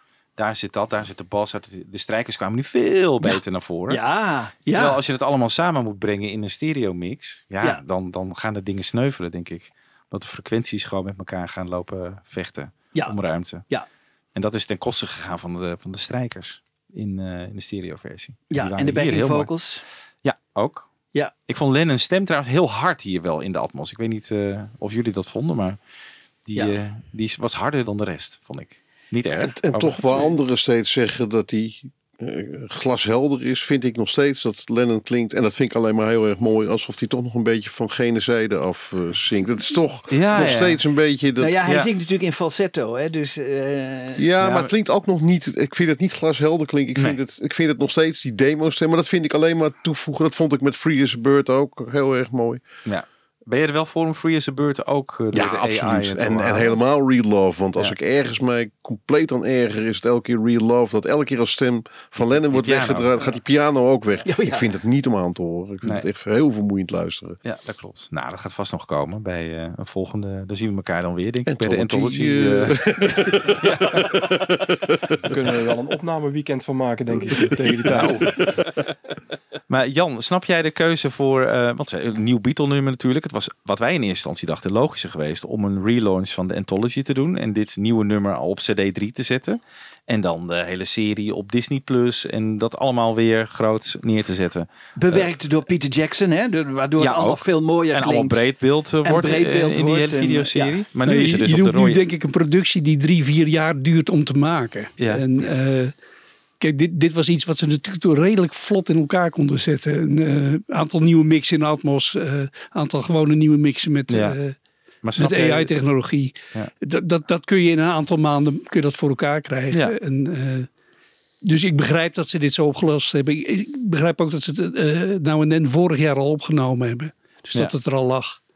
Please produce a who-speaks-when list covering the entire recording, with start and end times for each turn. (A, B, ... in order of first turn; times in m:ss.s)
0:00.4-0:04.0 A
0:03.2-0:05.0 B
0:04.7-0:13.7 A
0:12.9-0:13.9 B
0:14.3-0:19.5 A
0:18.5-0:19.8 B
0:20.2-0:20.9 A
0:21.4-0:25.8 A
0:26.4-0:30.3 A
0:29.4-0:41.6 C
0:40.1-0:40.8 A
0:41.4-0:44.2 B
0:44.2-0:52.6 C
0:44.4-0:44.7 A
0:52.8-0:56.8 A
0:55.3-1:07.4 C
1:02.2-1:03.1 A
1:04.3-1:04.7 B
1:07.4-1:12.8 A
1:11.5-1:14.6 C
1:13.4-1:14.2 B
1:15.2-1:18.6 D
1:19.7-1:35.3 A
1:35.0-1:38.5 B
1:37.0-1:42.0 A
1:39.0-1:40.9 B
1:41.0-1:45.9 E
1:45.0-1:45.2 A
1:46.6-1:54.6 E
1:54.1-1:54.4 A
1:55.0-1:55.7 A
1:55.2-2:00.7 E
2:01.4-2:08.4 E